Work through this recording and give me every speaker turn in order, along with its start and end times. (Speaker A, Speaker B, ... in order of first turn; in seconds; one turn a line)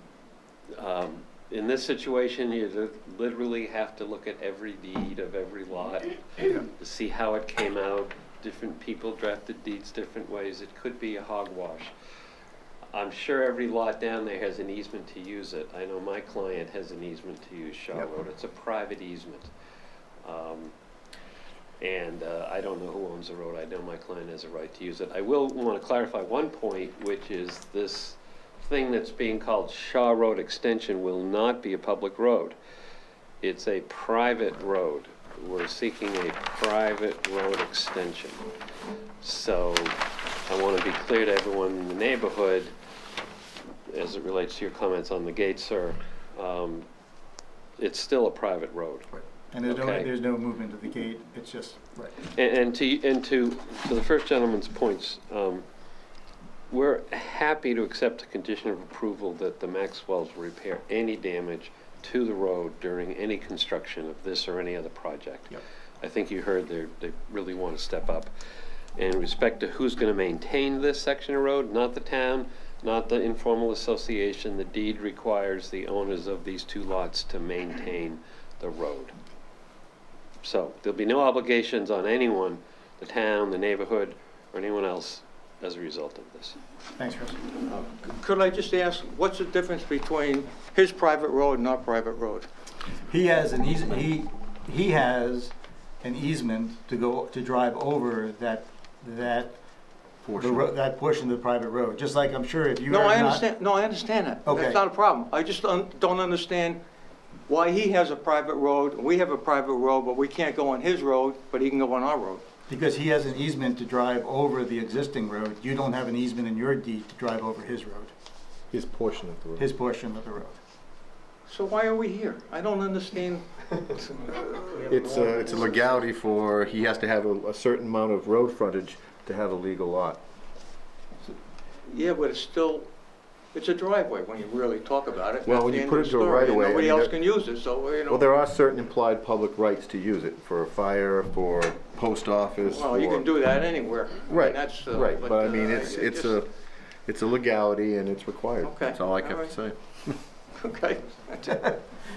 Speaker A: 0.8-11.9
Speaker A: 12.9-19.5
Speaker A: 20.2-20.7
Speaker A: 21.8-32.5
Speaker A: 33.4-38.5
Speaker A: 39.2-42.7
Speaker A: 43.9-46.9
Speaker A: 47.8-49.1
Speaker B: 49.1-52.1
Speaker A: 49.6-50.1
Speaker A: 52.3-55.6
Speaker A: 56.7-68.3
Speaker A: 69.0-79.1
Speaker A: 80.4-86.5
Speaker B: 87.0-87.4
Speaker C: 87.6-92.5
Speaker B: 93.0-99.6
Speaker D: 100.2-100.7
Speaker B: 100.3-103.4
Speaker C: 102.9-106.8
Speaker B: 104.4-104.8
Speaker C: 107.5-112.4
Speaker B: 112.7-118.1
Speaker D: 118.7-119.7
Speaker B: 119.6-120.6
Speaker C: 121.5-126.0
Speaker D: 124.9-130.2
Speaker C: 131.8-132.9
Speaker C: 133.5-138.3
Speaker D: 135.4-137.2
Speaker D: 138.1-143.2
Speaker C: 142.7-146.4
Speaker D: 144.3-146.5
Speaker D: 147.1-149.8
Speaker C: 148.6-149.5
Speaker C: 150.6-151.7